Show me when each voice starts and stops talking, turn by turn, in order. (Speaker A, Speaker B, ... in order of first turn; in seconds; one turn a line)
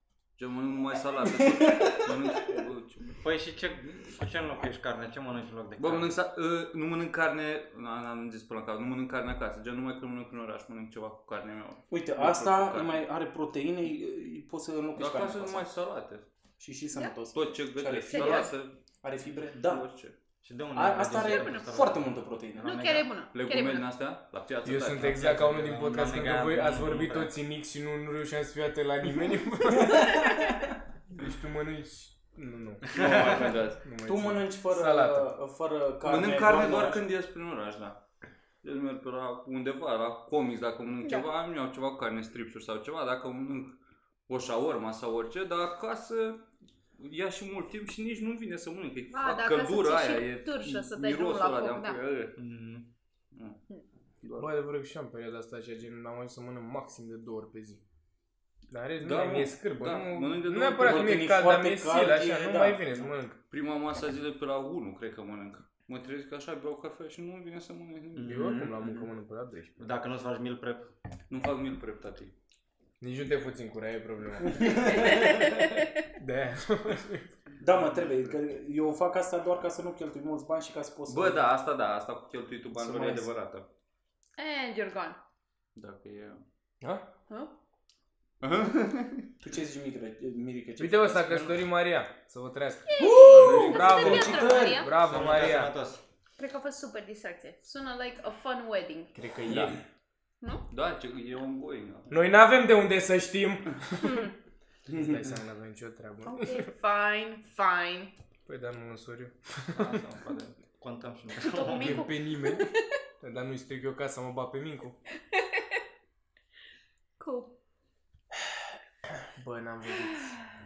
Speaker A: 0.4-3.2
Speaker B: 1.4-2.0
Speaker C: 3.2-6.2
Speaker A: 5.8-13.1
Speaker B: 11.9-15.7
Speaker A: 15.0-16.3
Speaker B: 16.6-19.8
Speaker A: 17.3-18.7
Speaker D: 18.1-18.5
Speaker A: 19.6-20.1
Speaker C: 20.4-23.1
Speaker B: 20.7-22.9
Speaker D: 21.1-21.8
Speaker D: 22.6-23.9
Speaker A: 23.3-25.9
Speaker E: 24.6-30.3
Speaker C: 25.1-27.3
Speaker B: 29.8-30.2
Speaker E: 31.1-33.1
Speaker A: 32.9-33.8
Speaker C: 32.9-33.4
Speaker B: 33.0-37.0
Speaker E: 33.8-35.3
Speaker A: 36.0-38.0
Speaker A: 38.6-46.4
Speaker D: 41.0-41.3
Speaker A: 47.0-52.4
Speaker D: 49.1-52.0
Speaker C: 52.4-52.9
Speaker A: 53.3-53.6
Speaker A: 54.2-54.5
Speaker E: 54.4-57.8
Speaker E: 58.7-63.4
Speaker A: 59.0-61.2
Speaker B: 60.8-63.0
Speaker A: 63.5-68.7
Speaker C: 68.1-69.1
Speaker E: 68.2-69.8
Speaker C: 69.8-70.9
Speaker A: 71.3-72.3
Speaker E: 73.0-75.1
Speaker B: 74.4-75.5
Speaker D: 74.8-76.0
Speaker E: 76.2-77.3
Speaker B: 77.6-81.5
Speaker A: 81.1-83.7
Speaker B: 82.7-83.3
Speaker D: 84.4-85.2
Speaker A: 85.7-86.4
Speaker E: 86.8-87.1
Speaker D: 87.3-87.5
Speaker A: 88.4-89.3
Speaker B: 89.4-91.5
Speaker E: 90.8-95.7
Speaker D: 92.9-94.9
Speaker B: 93.0-94.9
Speaker A: 93.4-94.0
Speaker C: 95.0-96.0
Speaker D: 96.4-99.2
Speaker E: 99.1-99.8
Speaker A: 99.5-99.8
Speaker A: 100.7-102.3
Speaker E: 102.1-104.3
Speaker D: 104.0-104.3
Speaker B: 104.9-105.2
Speaker E: 104.9-106.7
Speaker D: 106.2-108.1
Speaker E: 108.5-110.0
Speaker C: 109.7-112.1
Speaker D: 111.5-112.8
Speaker E: 111.7-112.7
Speaker E: 113.2-115.0
Speaker D: 115.3-115.6
Speaker D: 117.2-117.5
Speaker E: 119.3-120.4